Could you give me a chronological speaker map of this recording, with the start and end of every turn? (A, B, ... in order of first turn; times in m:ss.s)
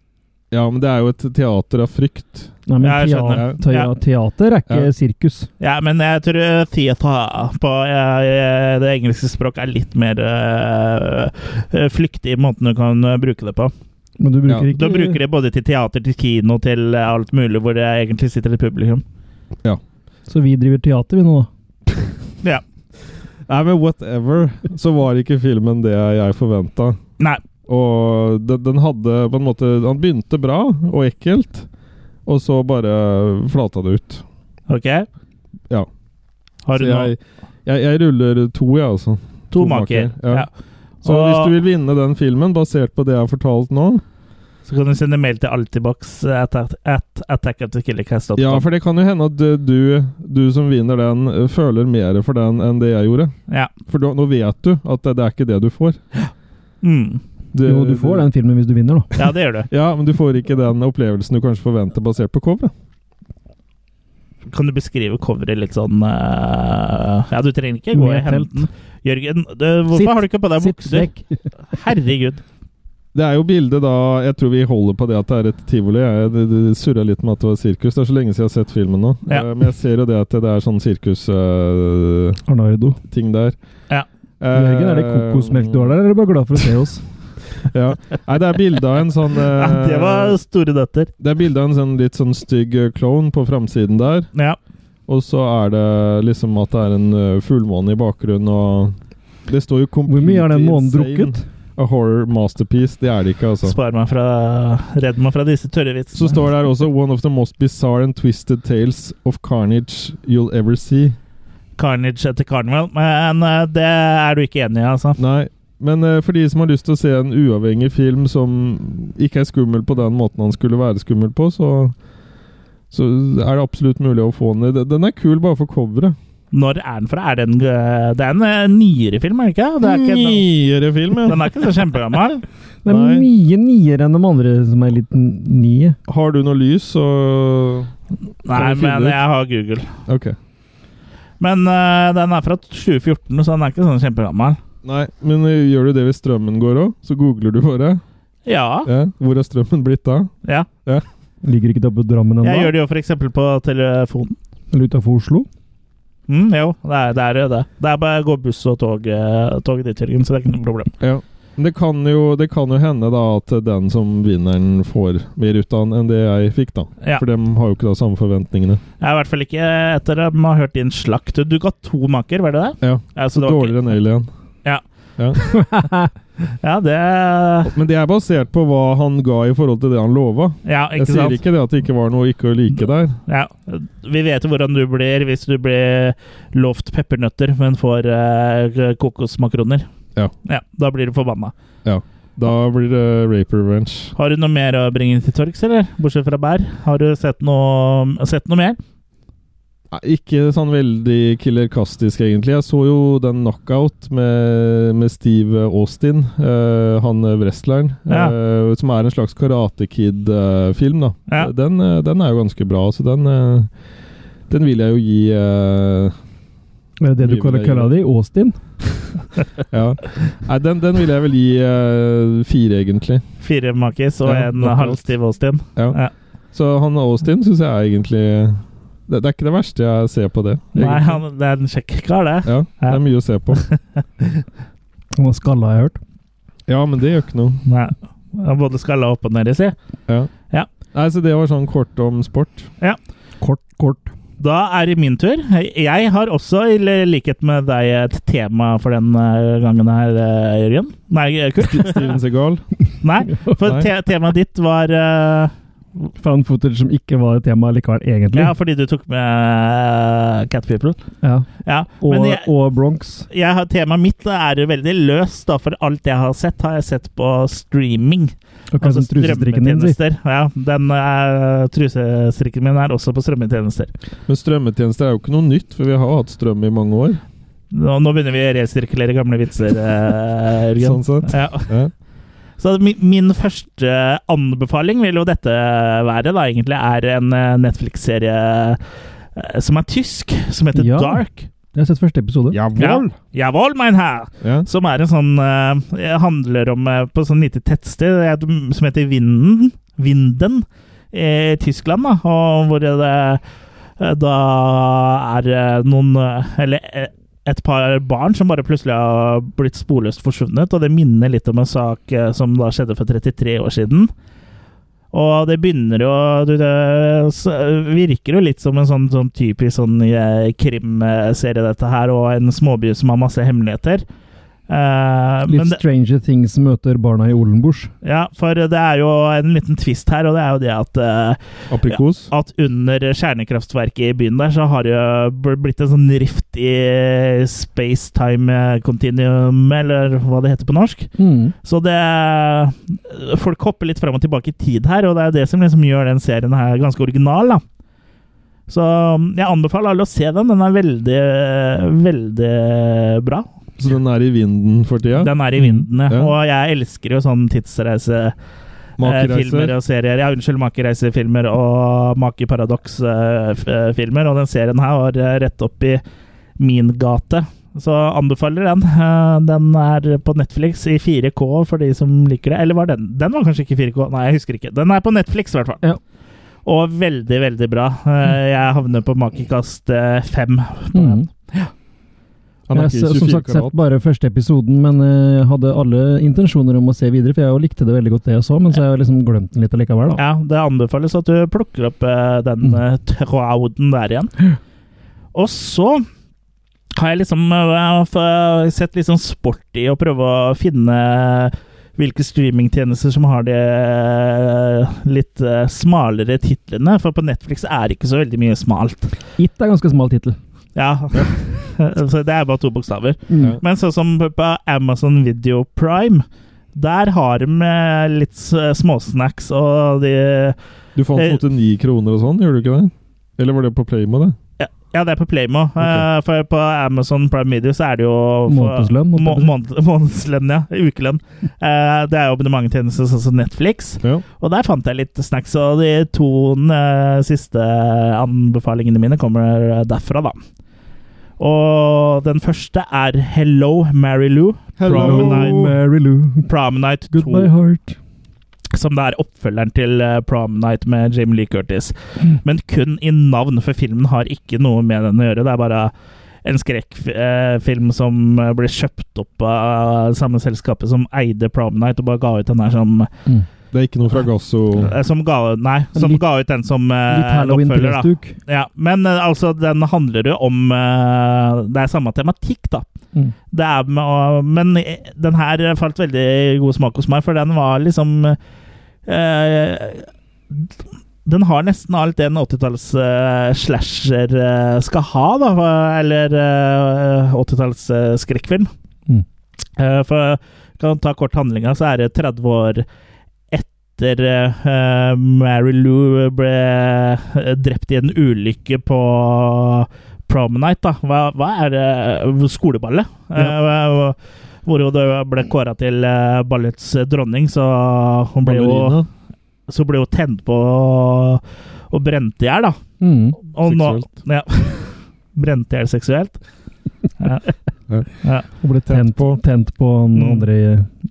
0:00.5-0:02.6 A
0:02.7-0:05.5 B
0:02.8-0:03.9 C
0:03.3-0:03.6 A
0:05.6-0:13.7 C
0:14.2-0:15.2 B
0:14.7-0:19.0 C
0:20.3-0:21.5 B
0:23.5-0:27.0 A
0:27.7-0:31.7 A
0:32.2-0:34.2 A
0:34.7-0:35.1 C
0:36.6-0:37.1 C
0:36.7-0:40.5 A
0:39.5-0:40.5 C
0:41.0-0:41.5 C
0:41.0-0:44.0 A
0:44.6-0:48.6 C
0:48.4-0:53.3 A
0:53.8-0:56.0 A
0:56.8-0:57.2 C
0:57.5-0:58.3 A
0:57.6-0:59.1 B
0:59.1-0:59.7 C
0:59.7-1:02.7 A
1:04.5-1:11.1 C
1:07.9-1:08.7 B
1:09.9-1:11.5 B
1:11.6-1:12.4 C
1:13.1-1:22.4 A
1:22.5-1:23.0 B
1:23.1-1:23.6 A
1:24.4-1:25.9 A
1:24.5-1:27.0 B
1:27.6-1:30.4 A
1:29.5-1:31.1 C
1:31.2-1:34.3 A
1:35.1-1:43.8 A
1:40.1-1:41.4 B
1:43.6-1:46.4 C
1:46.1-1:51.2 A
1:51.8-1:55.2 C
1:55.2-2:01.9 A
2:02.9-2:06.2 A
2:06.5-2:10.5 C
2:09.8-2:11.5 A
2:11.2-2:12.4 C
2:12.8-2:16.0 B
2:12.8-2:13.3 A
2:16.1-2:17.9 A
2:18.4-2:19.9 C
2:18.5-2:19.2 A
2:20.1-2:20.4 A
2:21.4-2:24.6 C
2:24.8-2:28.0 A
2:28.4-2:28.9 C
2:28.8-2:30.3 A
2:31.4-2:32.7 B
2:32.4-2:34.4 C
2:34.7-2:35.5 B
2:36.3-2:40.9 C
2:41.0-2:48.8 A
2:49.0-2:53.8 C
2:52.8-2:54.3 A
2:55.4-2:55.7 C
2:55.6-2:56.1 B
2:56.5-2:57.7 C
2:57.7-3:03.2 A
3:00.6-3:01.4 C
3:03.3-3:09.9 C
3:10.4-3:11.5 C
3:11.8-3:14.1 A
3:14.2-3:18.8 C
3:19.9-3:33.7 A
3:28.1-3:28.3 C
3:34.5-3:36.1 A
3:37.0-3:39.2 B
3:37.2-3:38.0 A
3:39.7-3:43.2 A
3:43.4-3:46.1 C
3:44.2-3:45.1 A
3:46.5-3:51.2 A
3:50.7-3:53.0 C
3:52.4-3:53.6 A
3:53.5-3:54.4 C
3:55.2-3:56.0 B
3:56.7-3:57.6 A
3:57.6-3:59.7 C
4:00.9-4:02.7 A
4:03.4-4:04.1 B
4:04.4-4:12.1 C
4:11.6-4:12.6 A
4:13.0-4:15.5 C
4:13.6-4:13.9 A
4:16.2-4:18.5 B
4:18.3-4:21.0 C
4:21.2-4:21.5 B
4:21.6-4:22.5 C
4:22.0-4:23.3 B
4:23.3-4:33.9 C
4:28.7-4:30.0 B
4:34.3-4:37.2 A
4:37.7-4:41.7 C
4:40.8-4:41.9 A
4:42.6-4:48.8 C
4:49.4-4:51.5 C
4:50.7-4:52.6 B
4:52.5-4:53.2 A
4:52.8-5:03.4 C
4:54.4-4:54.7 A
5:04.0-5:14.1 C
5:15.1-5:24.0 C
5:24.7-5:25.8 C
5:25.5-5:27.9 B
5:28.0-5:41.1 C
5:31.7-5:32.3 A
5:41.2-5:41.5 B
5:41.6-5:47.6 C
5:48.7-5:53.5 C
5:53.8-5:55.3 A
5:55.2-5:58.4 C
5:59.0-5:59.7 A
5:59.0-6:06.0 C
6:06.6-6:15.8 C
6:16.6-6:21.7 C
6:20.9-6:21.3 B
6:22.7-6:23.8 A
6:22.7-6:30.2 B
6:30.2-6:34.3 C
6:35.3-6:36.0 C
6:37.0-6:49.1 C
6:49.4-6:50.4 B
6:50.7-7:00.6 C
6:53.3-6:53.6 B
7:01.0-7:04.4 A
7:01.1-7:01.4 C
7:04.6-7:20.4 C
7:05.8-7:06.1 A
7:08.5-7:09.5 B
7:21.4-7:25.6 C
7:24.8-7:25.8 A
7:24.9-7:26.5 B
7:26.5-7:27.5 C
7:27.1-7:28.0 B
7:28.7-7:35.9 C
7:36.4-7:43.1 C
7:43.7-7:44.9 A
7:44.8-7:52.9 C
7:45.9-7:46.2 B
7:47.1-7:48.4 B
7:53.5-7:58.4 C
7:59.1-8:00.7 C
8:01.2-8:08.7 C
8:09.8-8:12.9 C
8:13.5-8:29.0 C
8:28.4-8:29.1 A
8:29.7-8:32.8 C
8:33.0-8:33.4 B
8:33.4-8:36.4 C
8:33.6-8:34.1 A
8:37.2-8:37.5 C
8:38.2-8:38.5 C
8:38.6-8:40.9 B
8:38.9-8:39.4 A
8:40.1-8:40.4 C